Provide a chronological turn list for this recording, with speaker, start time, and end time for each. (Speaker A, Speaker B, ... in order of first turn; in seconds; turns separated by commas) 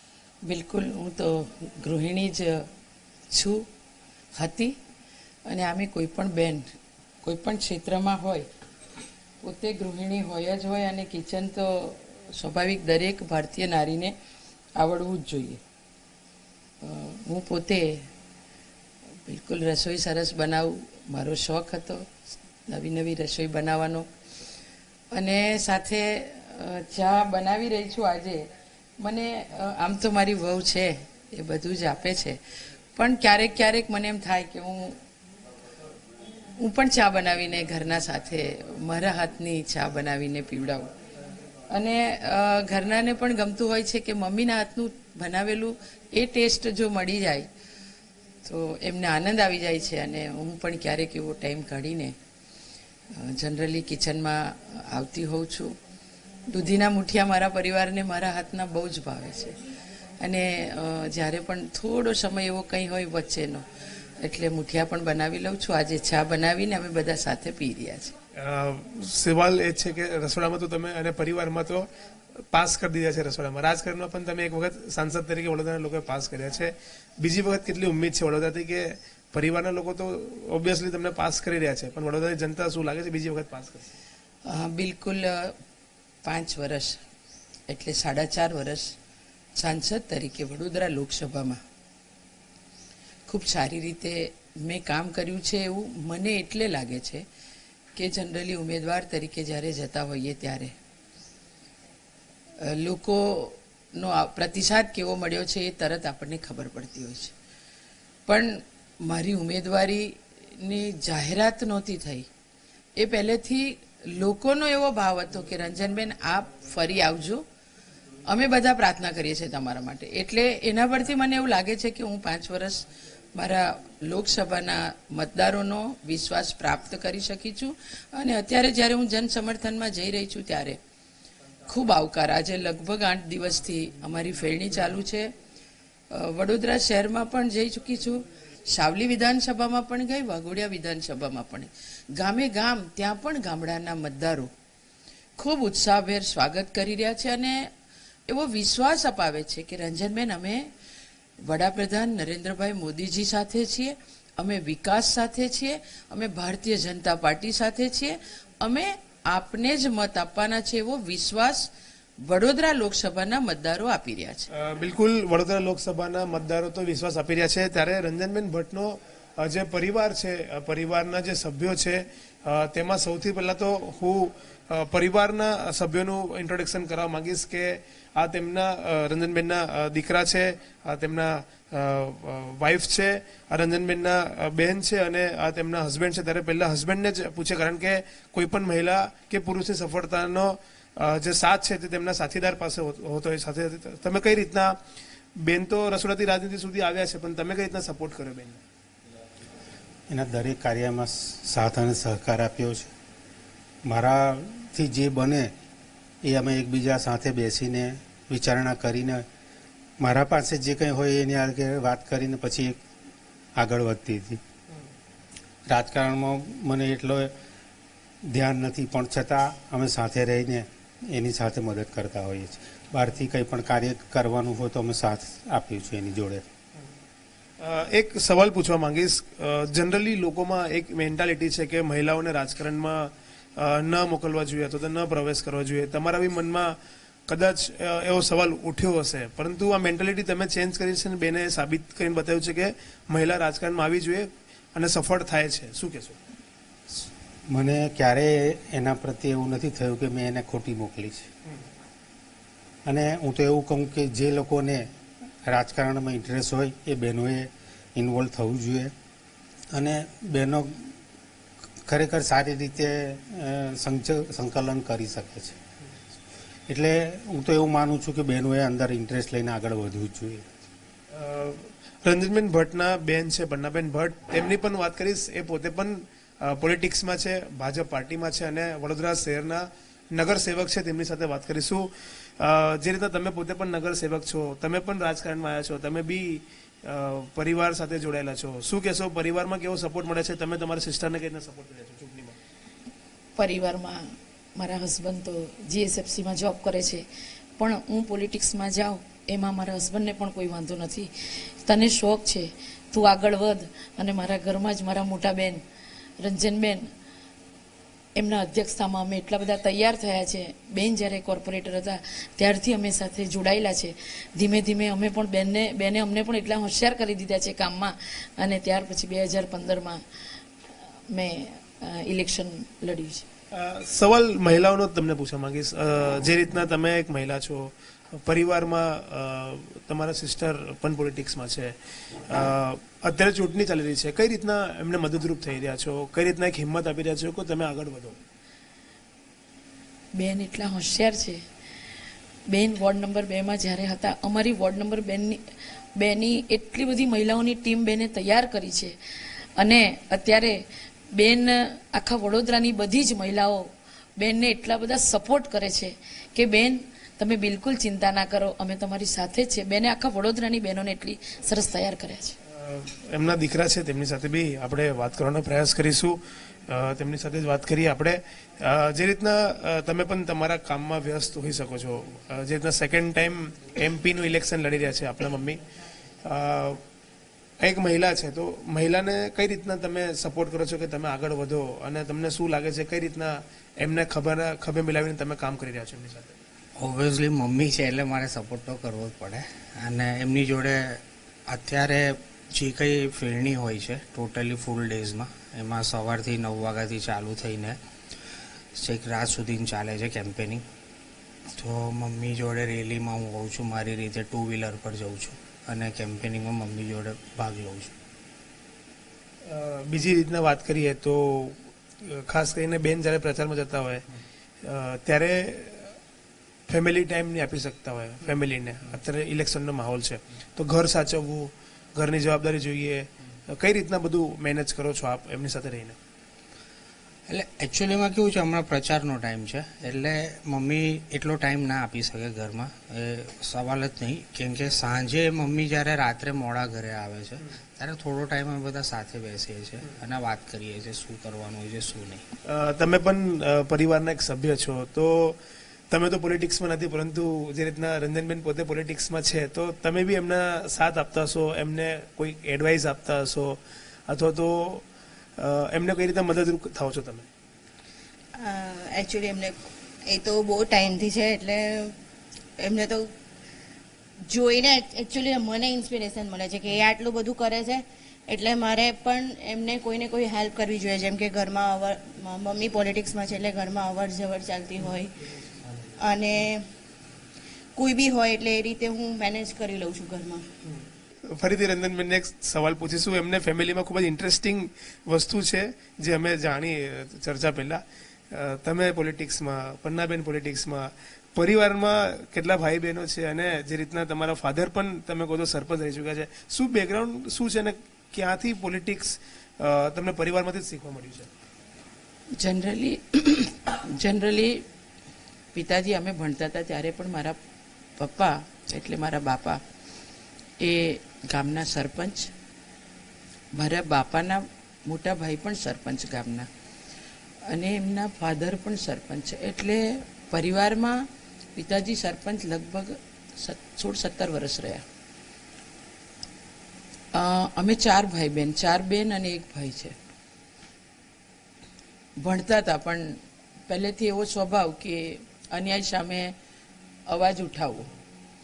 Speaker A: 0.5-2.7, Speaker A: 3.3-3.6, Speaker A: 4.3-4.8, Speaker A: 5.5-6.7, Speaker A: 7.2-8.5, Speaker A: 9.4-14.1, Speaker A: 14.8-15.6, Speaker A: 16.8-17.9, Speaker A: 19.2-22.1, Speaker A: 22.6-24.1, Speaker A: 25.1-28.5, Speaker A: 29.0-32.4, Speaker A: 32.9-35.0, Speaker A: 36.6-40.9, Speaker A: 41.7-47.5, Speaker A: 48.4-52.1, Speaker A: 53.1-55.7, Speaker A: 56.5-59.6, Speaker A: 60.2-63.6, Speaker A: 64.2-68.1, Speaker B: 68.4-71.9, Speaker B: 72.5-83.9, Speaker A: 84.5-85.5, Speaker A: 86.2-87.0, Speaker A: 87.7-88.9, Speaker A: 89.5-91.6, Speaker A: 93.3-97.2, Speaker A: 97.9-100.7, Speaker A: 102.6-107.3, Speaker A: 108.3-112.3, Speaker A: 113.0-117.4, Speaker A: 118.2-130.8, Speaker A: 131.7-135.3, Speaker A: 136.1-144.5, Speaker A: 145.3-147.7, Speaker A: 148.3-150.7, Speaker A: 151.4-161.7, Speaker A: 162.2-164.5, Speaker B: 164.5-194.8, Speaker B: 195.4-198.6, Speaker C: 200.1-202.9, Speaker C: 203.8-205.5, Speaker C: 206.2-209.2, Speaker C: 210.0-212.8, Speaker C: 213.6-214.4, Speaker C: 215.7-217.3, Speaker C: 218.3-226.4, Speaker B: 227.6-246.2, Speaker C: 247.5-251.3, Speaker C: 252.8-254.9, Speaker C: 255.4-258.9, Speaker C: 259.7-260.9, Speaker C: 261.9-265.6, Speaker C: 266.7-270.4, Speaker B: 271.1-292.4, Speaker D: 293.4-294.0, Speaker D: 294.6-297.0, Speaker D: 297.6-301.1, Speaker D: 301.6-305.6, Speaker D: 306.2-306.8, Speaker D: 308.1-320.0, Speaker D: 321.1-323.2, Speaker B: 323.5-338.2, Speaker D: 340.1-341.4, Speaker D: 342.5-345.4, Speaker D: 345.9-348.9, Speaker D: 349.6-350.6, Speaker D: 351.1-353.6, Speaker D: 354.2-362.4, Speaker B: 362.5-375.6, Speaker B: 376.2-376.8, Speaker B: 377.6-386.4, Speaker E: 386.8-397.8, Speaker E: 398.7-400.6, Speaker E: 401.5-407.9, Speaker B: 409.4-414.0, Speaker B: 414.6-415.9, Speaker B: 416.7-426.0, Speaker E: 427.3-442.2, Speaker B: 442.4-445.4, Speaker B: 445.9-454.9, Speaker B: 455.4-457.3, Speaker F: 458.4-461.9, Speaker F: 462.6-463.1, Speaker F: 464.3-475.1, Speaker F: 475.9-476.7, Speaker F: 477.7-480.4, Speaker B: 481.3-501.3, Speaker A: 502.4-504.6, Speaker A: 505.5-507.4, Speaker A: 508.0-509.6, Speaker A: 510.6-512.3, Speaker A: 513.5-516.5, Speaker A: 517.5-521.0, Speaker A: 521.5-524.8, Speaker A: 527.1-530.0, Speaker A: 532.2-536.3, Speaker A: 537.1-537.9